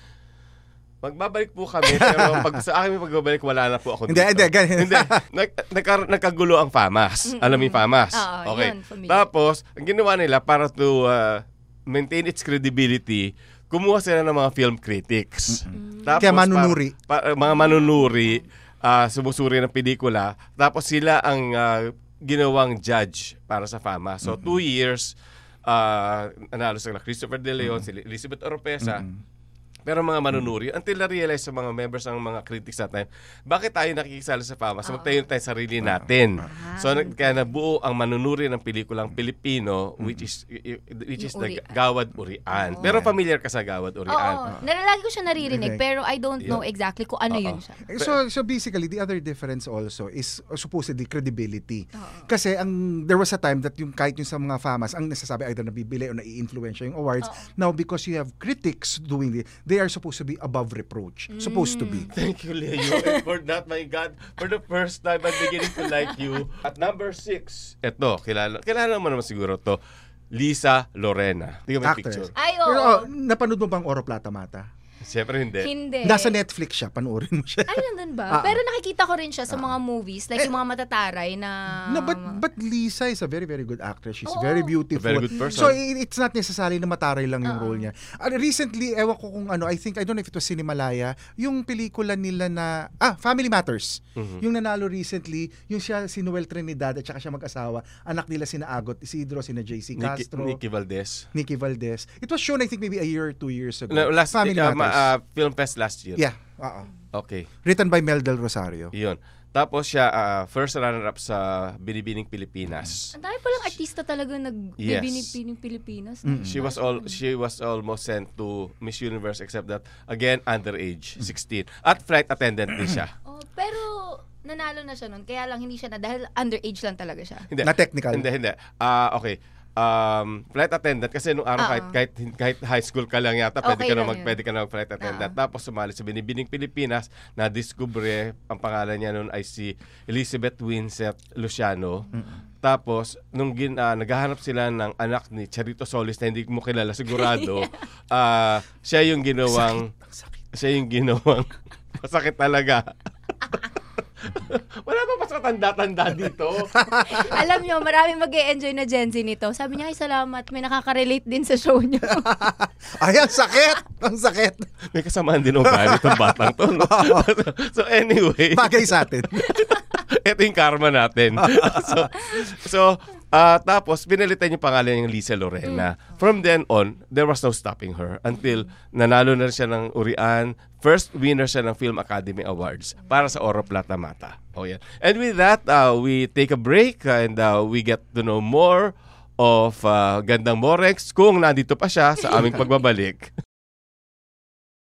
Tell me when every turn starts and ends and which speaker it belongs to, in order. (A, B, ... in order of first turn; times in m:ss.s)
0:01.0-0:25.1 A
0:01.9-0:02.5 B
0:04.1-0:05.2 B
0:07.3-0:09.3 C
0:15.5-0:17.0 B
0:15.7-0:16.2 C
0:17.4-0:18.4 C
0:24.2-0:24.6 B
0:25.7-0:29.0 A
0:27.6-0:27.9 B
0:28.8-0:29.2 B
0:29.9-0:44.4 A
0:34.8-0:35.2 C
0:35.8-0:36.1 B
0:36.4-0:37.4 C
0:40.0-0:40.3 B
0:41.2-0:41.8 C
0:42.5-0:42.9 C
0:42.8-0:43.2 B
0:44.1-0:47.8 C
0:45.4-0:45.8 B
0:47.3-0:48.2 A
0:47.9-1:02.1 B
0:51.9-0:52.3 C
0:57.2-0:57.5 C
1:01.3-1:02.1 C
1:02.1-1:09.8 A
1:02.8-1:03.2 C
1:05.4-1:06.1 C
1:10.3-1:12.3 A
1:11.8-1:14.7 B
1:12.4-1:13.1 C
1:15.0-1:15.7 A
1:15.6-1:16.4 C
1:16.0-1:18.6 B
1:17.7-1:22.4 C
1:21.8-1:40.6 B
1:24.2-1:24.8 C
1:25.0-1:25.8 A
1:25.3-1:25.6 C
1:27.4-1:27.9 C
1:34.2-1:34.4 A
1:40.0-1:41.3 A
1:41.3-1:45.1 B
1:43.9-1:46.2 A
1:46.2-1:46.9 B
1:47.1-1:47.5 A
1:47.6-1:48.9 B
1:48.9-1:53.1 A
1:53.1-1:57.2 C
1:54.8-1:55.3 A
1:56.2-1:56.6 B
1:56.4-2:03.1 A
2:03.3-2:07.5 C
2:07.5-2:22.1 A
2:07.6-2:08.3 B
2:11.6-2:11.9 C
2:13.6-2:14.4 C
2:15.0-2:15.3 C
2:22.1-2:22.4 B
2:22.6-2:29.9 A
2:29.5-2:30.4 B
2:30.5-2:32.9 A
2:34.3-2:36.8 A
2:36.8-2:37.1 B
2:37.0-2:42.3 C
2:42.1-2:44.7 B
2:44.9-3:13.3 A
2:45.6-2:47.3 B
2:48.5-2:49.6 B
2:51.4-2:52.1 B